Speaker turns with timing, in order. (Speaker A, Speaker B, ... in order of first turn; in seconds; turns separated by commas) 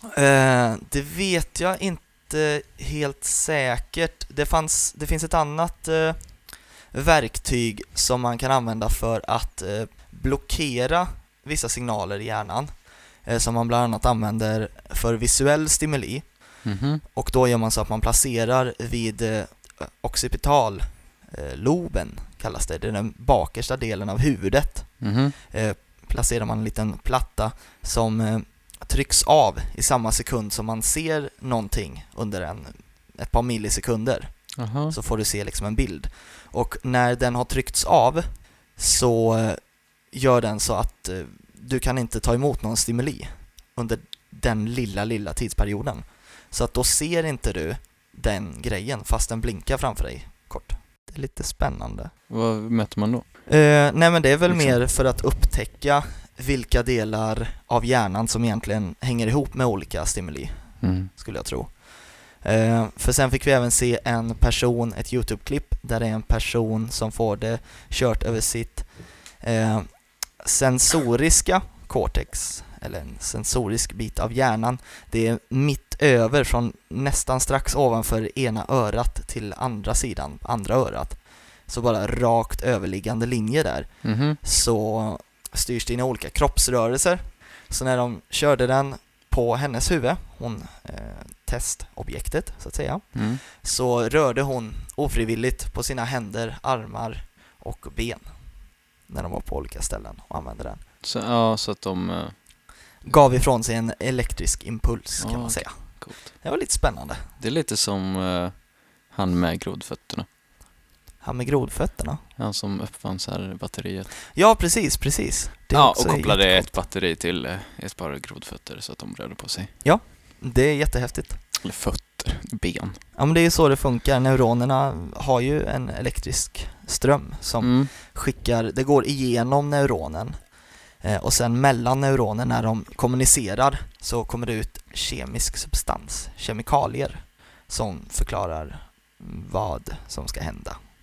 Speaker A: 0.1-52.1, Speaker B: 16.6-17.0, Speaker B: 25.0-25.4, Speaker B: 34.6-35.0, Speaker B: 52.3-53.3, Speaker A: 53.5-98.3, Speaker B: 54.5-54.8, Speaker B: 60.8-61.1, Speaker B: 84.0-84.4, Speaker B: 93.1-93.4, Speaker A: 99.1-100.8, Speaker B: 101.0-102.4, Speaker A: 103.0-107.2, Speaker B: 105.2-106.3, Speaker B: 107.4-108.5, Speaker B: 109.1-110.3, Speaker A: 111.2-112.2, Speaker B: 112.4-114.1, Speaker A: 114.3-116.7, Speaker B: 115.7-119.7, Speaker A: 119.8-121.4, Speaker B: 121.6-123.0, Speaker A: 123.2-130.5, Speaker B: 127.6-127.9, Speaker A: 131.0-140.8